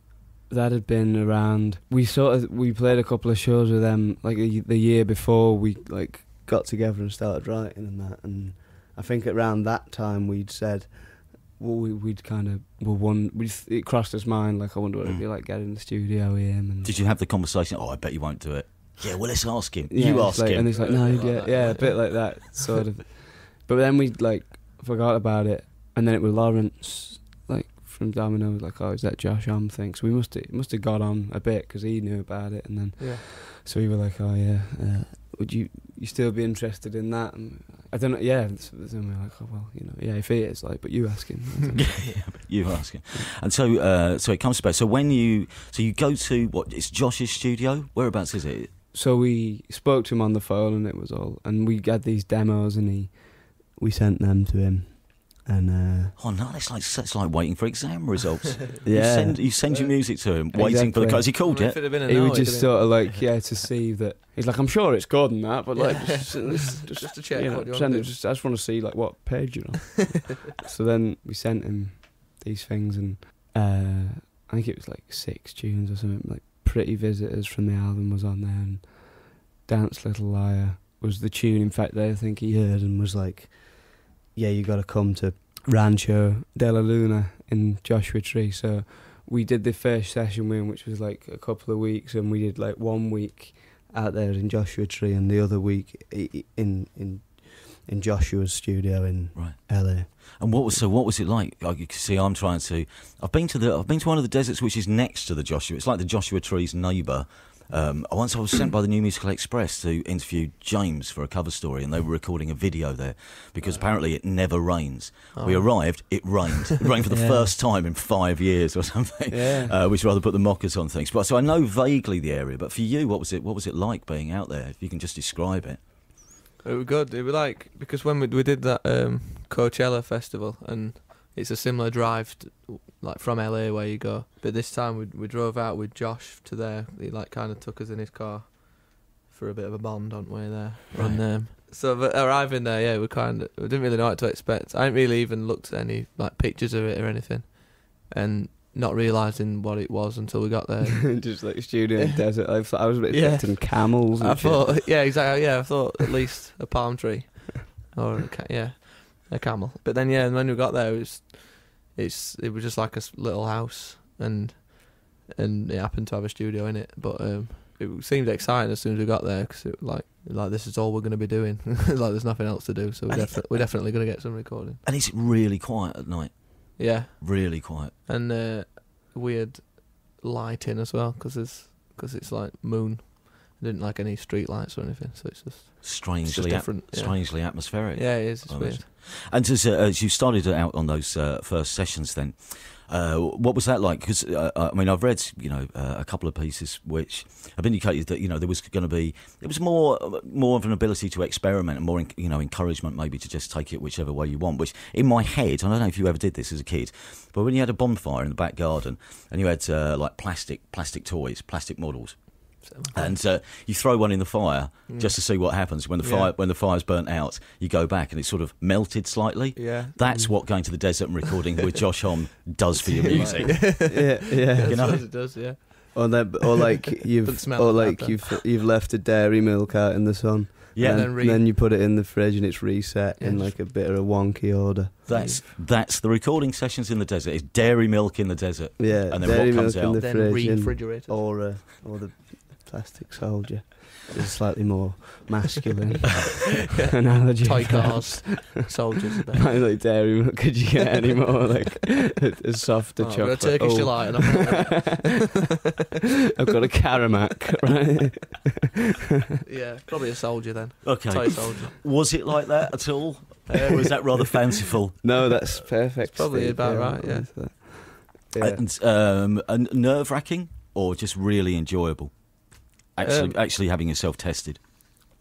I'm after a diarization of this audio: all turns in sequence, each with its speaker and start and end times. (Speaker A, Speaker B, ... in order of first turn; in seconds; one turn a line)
Speaker A: 0.5-16.9
Speaker B: 16.8-20.9
Speaker A: 19.9-42.4
Speaker C: 20.5-22.5
Speaker C: 33.0-33.2
Speaker B: 41.8-48.7
Speaker A: 48.9-56.2
Speaker B: 56.2-61.8
Speaker A: 58.8-59.9
Speaker A: 60.5-100.8
Speaker C: 61.4-63.0
Speaker C: 65.8-68.2
Speaker B: 99.3-125.8
Speaker C: 115.3-116.3
Speaker A: 117.1-117.6
Speaker A: 119.3-119.8
Speaker C: 126.6-151.3
Speaker B: 140.9-141.4
Speaker A: 151.1-154.9
Speaker C: 153.1-174.8
Speaker B: 173.1-173.9
Speaker B: 174.8-177.9
Speaker C: 176.8-188.9
Speaker B: 185.8-223.7
Speaker C: 212.6-213.2
Speaker C: 214.9-215.4
Speaker C: 216.0-216.3
Speaker C: 219.6-220.4
Speaker C: 222.8-226.4
Speaker A: 223.1-225.4
Speaker B: 224.7-225.6
Speaker A: 225.9-235.1
Speaker C: 227.2-228.4
Speaker B: 230.8-231.1
Speaker C: 230.8-231.5
Speaker C: 233.2-233.6
Speaker B: 235.1-240.1
Speaker C: 235.1-235.5
Speaker A: 238.8-246.4
Speaker C: 239.9-241.4
Speaker A: 246.9-248.6
Speaker C: 247.4-249.6
Speaker A: 249.3-254.6
Speaker C: 253.0-255.2
Speaker A: 256.4-258.5
Speaker C: 259.4-262.1
Speaker B: 260.8-265.3
Speaker C: 263.5-263.8
Speaker A: 265.0-268.6
Speaker C: 266.1-267.3
Speaker B: 268.4-274.6
Speaker C: 273.0-273.4